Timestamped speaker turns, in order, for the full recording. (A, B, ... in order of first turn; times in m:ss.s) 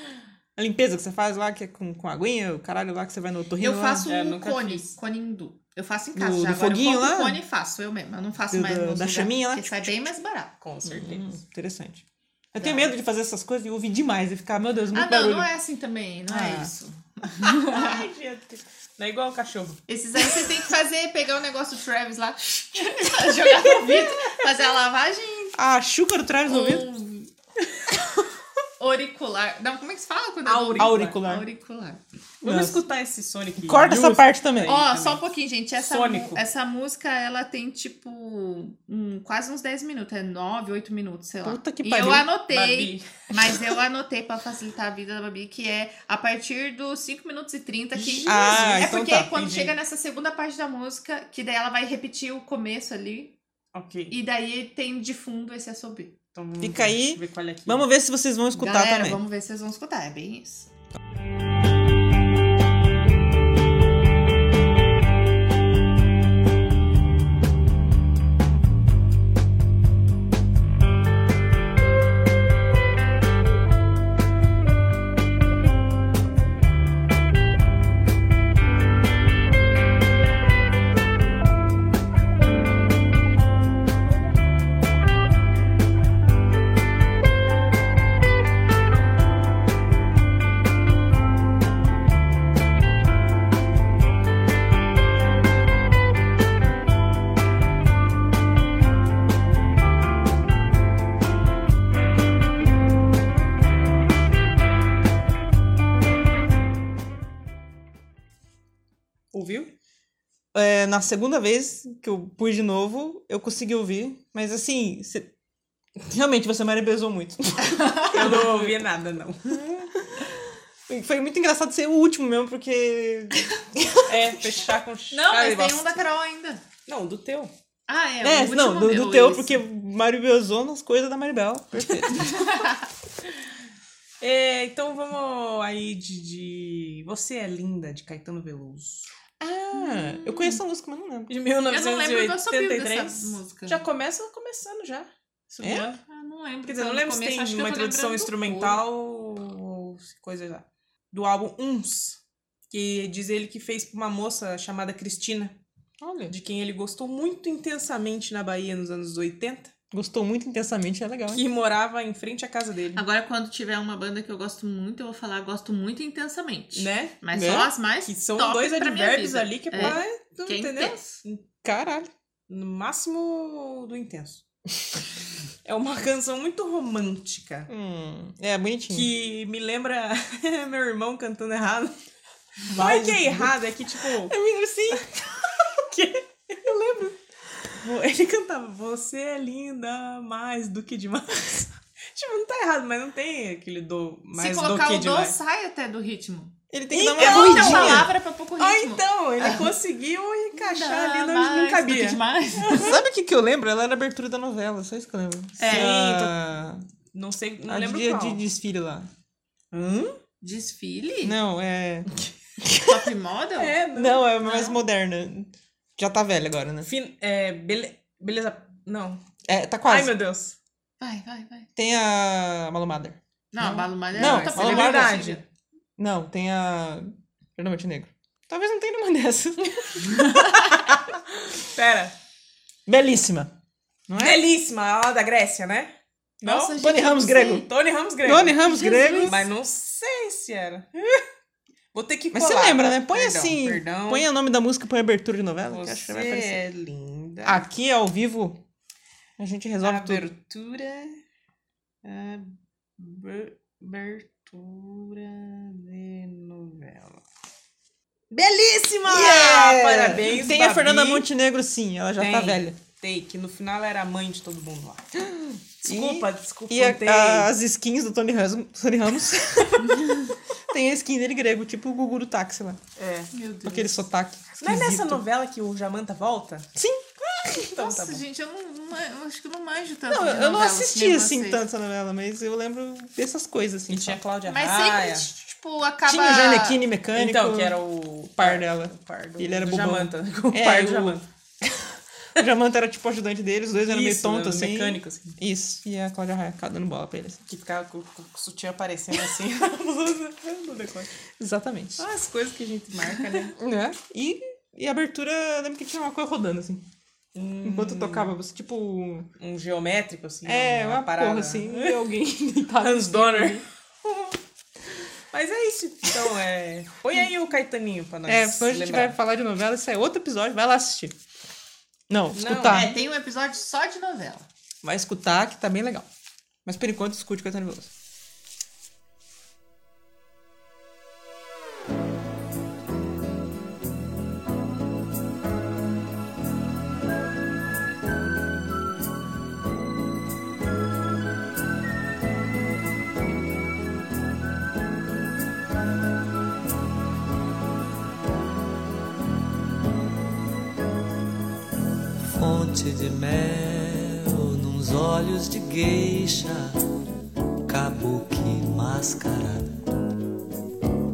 0:00.6-0:04.1 A
0:03.6-0:10.5 B
0:04.1-0:05.0 C
0:06.2-0:07.4 A
0:08.5-0:09.9 A
0:10.6-0:11.4 C
0:10.8-0:15.5 A
0:12.6-0:12.9 B
0:14.9-0:18.0 B
0:16.3-0:16.7 A
0:17.4-0:19.8 C
0:19.9-0:25.6 B
0:25.6-0:26.9 A
0:26.5-0:27.3 B
0:28.8-0:32.0 B
0:30.4-0:31.2 C
0:30.8-0:31.4 A
0:32.4-0:35.2 C
0:32.4-0:32.8 A
0:33.6-0:34.8 A
0:34.7-0:53.4 B
0:35.8-0:36.4 C
0:41.4-0:42.3 A
0:42.5-0:43.1 C
0:48.0-0:49.3 A
0:48.3-0:49.8 C
0:53.7-0:54.1 C
0:54.1-0:56.2 B
0:56.3-0:57.9 C
0:56.6-0:59.2 A
0:58.6-1:00.7 B
1:49.3-1:49.7 C
1:50.5-1:55.3 A
1:56.0-1:58.8 A
1:58.1-1:59.6 C
1:59.5-2:00.4 A
2:00.9-2:04.2 A
2:04.1-2:06.0 C
2:05.1-2:06.6 B
2:06.9-2:07.5 C
2:07.9-2:09.6 B
2:08.2-2:12.4 A
2:12.3-2:12.7 B
2:14.2-2:19.1 C
2:19.4-2:21.3 A
2:19.8-2:20.6 B
2:21.3-2:26.0 C
2:21.7-2:23.8 B
2:25.6-2:25.9 A
2:26.1-2:28.8 B
2:26.7-2:32.2 C
2:32.7-2:35.6 C
2:36.0-2:36.4 A
2:36.3-2:39.7 C
2:39.9-2:41.4 A
2:41.3-2:43.0 C
2:43.0-2:51.2 B
2:46.8-2:47.2 C
2:47.3-2:47.7 A
2:48.0-2:51.4 C
2:49.8-2:50.0 A
2:51.6-2:52.1 A
2:52.5-2:54.4 C
2:55.6-2:57.7 C
2:57.7-2:59.1 A
2:58.9-3:01.9 C
3:02.6-3:04.3 C
3:02.8-3:03.6 A
3:04.1-3:05.8 A
3:05.9-3:07.2 C
3:07.8-3:15.4 C
3:14.4-3:16.5 B
3:16.7-3:18.1 A
3:16.9-3:23.0 C
3:17.2-3:19.7 B
3:20.6-3:22.9 B
3:22.8-3:26.8 A
3:25.6-3:25.9 B
3:25.6-3:26.4 C
3:27.1-3:28.4 C
3:27.7-3:29.1 A
3:29.7-3:30.2 C
3:30.4-3:31.4 B
3:31.2-3:32.1 A
3:32.6-3:33.1 A
3:32.9-3:33.8 B
3:33.6-3:34.8 C
3:34.0-3:36.9 A
3:36.8-3:39.2 C
3:39.4-3:40.1 A
3:39.9-3:40.6 C
3:41.0-3:41.7 B
3:41.8-3:45.3 A
3:43.5-3:45.4 B
3:44.1-3:45.4 C
3:46.0-3:51.0 A
3:51.6-3:52.2 C
3:52.9-3:53.5 A
3:54.1-3:54.4 A
3:54.2-3:56.8 C
3:56.4-3:57.7 B
3:56.7-3:57.7 A
3:57.6-4:01.2 C
3:58.2-3:59.5 A
3:58.6-3:59.4 B
4:01.9-4:04.3 C
4:02.3-4:06.6 A
4:05.7-4:07.6 C
4:07.4-4:08.6 A
4:09.4-4:10.3 A
4:09.8-4:11.2 C
4:12.0-4:17.2 C
4:18.3-4:21.3 C
4:19.0-4:22.8 A
4:22.2-4:25.0 C
4:25.2-4:32.8 A
4:25.8-4:27.5 C
4:33.0-4:33.3 C
4:33.3-4:34.0 B
4:33.6-4:35.2 A
4:34.6-4:36.7 C
4:36.8-4:37.8 A
4:37.8-4:38.2 C
4:37.8-4:41.6 B
4:40.1-4:44.2 A
4:43.9-4:45.3 C
4:44.5-4:46.8 B
4:46.1-4:47.8 A
4:47.2-4:51.3 C
4:48.4-4:57.4 A
4:53.8-4:55.4 C
4:57.5-5:01.1 C
5:01.4-5:02.0 A
5:02.0-5:03.6 C
5:03.5-5:06.9 A
5:07.4-5:08.3 C
5:07.6-5:09.3 A
5:09.4-5:12.0 C
5:10.4-5:13.6 A
5:12.8-5:14.3 C
5:15.3-5:19.2 C
5:18.3-5:21.2 A
5:22.1-5:23.0 A
5:22.3-5:22.9 C
5:22.7-5:24.5 B
5:24.8-5:26.1 A
5:26.6-5:27.9 A
5:52.2-5:56.8 D
5:57.7-5:59.8 D